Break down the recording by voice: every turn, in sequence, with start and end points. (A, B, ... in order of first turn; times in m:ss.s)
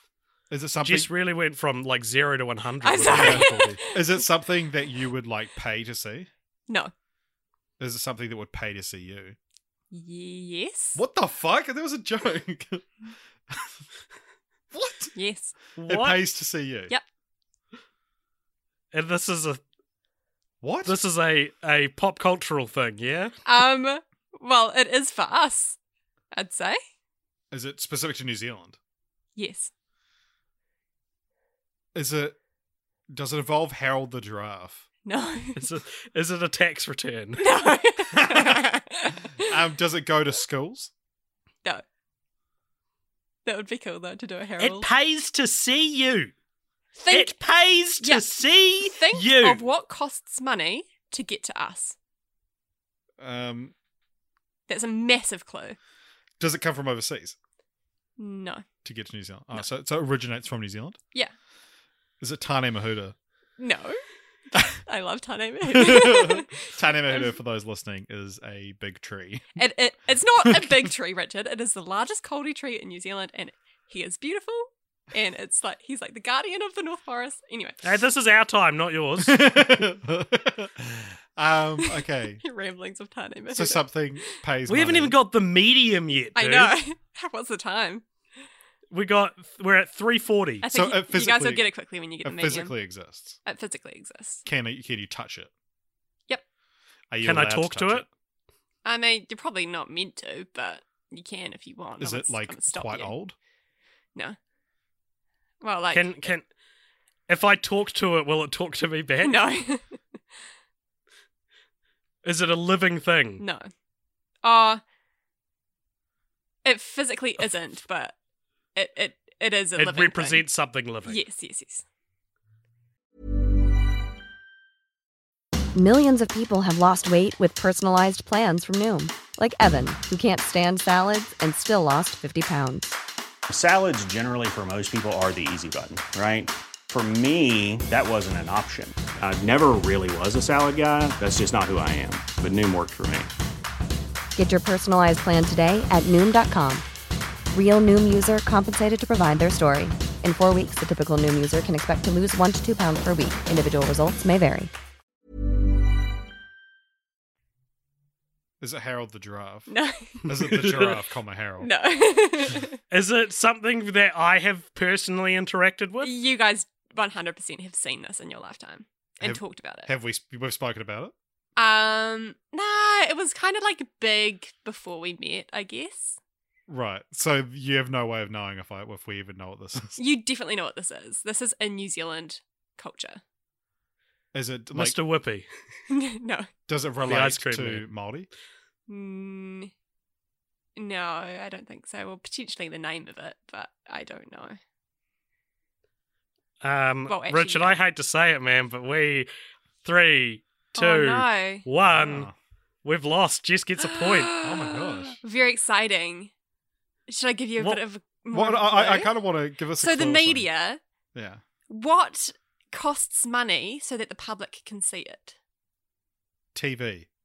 0:00.5-0:01.1 A
0:00.8-0:03.6 B
0:02.8-0:04.2 C
0:03.1-0:06.3 A
0:07.8-0:09.4 A
0:09.9-0:11.0 C
0:10.9-0:12.9 A
0:14.7-0:15.1 A
0:15.1-0:15.5 C
0:15.8-0:16.2 B
0:15.8-0:16.9 A
0:18.9-0:19.6 B
0:20.6-0:21.0 A
0:20.8-0:23.3 B
0:23.4-0:25.8 C
0:26.3-0:26.8 C
0:27.5-0:28.8 A
0:29.4-0:29.7 C
0:31.9-0:32.4 A
0:33.1-0:34.8 A
0:35.0-0:35.6 C
0:35.6-0:37.5 B
0:37.4-0:39.5 C
0:38.1-0:38.6 A
0:39.4-0:40.9 A
0:43.4-0:44.9 C
0:44.6-0:46.3 B
0:47.0-0:47.4 C
0:47.1-0:49.6 B
0:48.0-0:52.0 C
0:53.2-0:53.7 A
0:54.7-0:55.8 C
0:56.4-0:57.4 A
0:58.2-0:58.6 C
0:58.8-1:01.0 A
1:02.2-1:03.1 A
1:03.6-1:04.0 C
1:04.5-1:04.8 A
1:04.5-1:07.3 C
1:05.7-1:09.6 A
1:09.6-1:18.0 C
1:10.4-1:10.9 A
1:17.8-1:19.6 B
1:19.2-1:22.4 A
1:21.8-1:24.3 C
1:23.5-1:25.2 A
1:24.7-1:26.8 B
1:26.4-1:28.0 C
1:28.9-1:30.6 B
1:30.6-1:32.7 C
1:30.6-1:31.7 A
1:32.2-1:33.4 A
1:33.4-1:34.4 C
1:34.4-1:35.5 A
1:37.1-1:38.1 A
1:37.2-1:38.0 B
1:38.8-1:43.1 C
1:42.0-1:43.3 A
1:45.6-1:46.3 C
1:45.9-1:46.4 B
1:47.3-1:49.5 B
1:49.2-1:50.0 C
1:52.2-1:53.4 B
1:53.4-1:53.7 C
1:54.4-1:54.8 C
1:56.6-1:58.2 C
1:58.7-2:00.4 C
1:59.8-2:01.2 B
2:01.0-2:01.8 C
2:05.7-2:13.0 D
2:13.5-2:23.3 E
2:24.4-2:26.8 D
2:27.5-2:34.7 D
2:38.6-2:39.7 A
2:39.7-2:40.3 C
2:40.2-2:41.7 A
2:40.3-2:41.0 B
2:41.6-2:42.8 C
2:42.9-2:46.1 B
2:46.0-2:49.9 C
2:49.2-2:51.1 A
2:51.6-2:56.2 C
2:56.7-3:00.0 A
3:00.0-3:03.2 C
3:04.3-3:05.0 A
3:04.7-3:05.5 B
3:05.9-3:06.5 C
3:06.7-3:08.3 A
3:07.0-3:07.8 B
3:08.9-3:09.7 C
3:10.8-3:14.6 C
3:16.6-3:19.3 B
3:17.1-3:17.8 C
3:19.8-3:22.3 B
3:20.7-3:21.6 C
3:21.8-3:22.3 A
3:22.8-3:24.4 B
3:23.8-3:26.3 C
3:24.4-3:25.2 A
3:27.1-3:29.2 C
3:28.3-3:30.5 A
3:29.8-3:30.8 C
3:31.1-3:31.4 A
3:31.7-3:35.4 C
3:36.5-3:37.1 A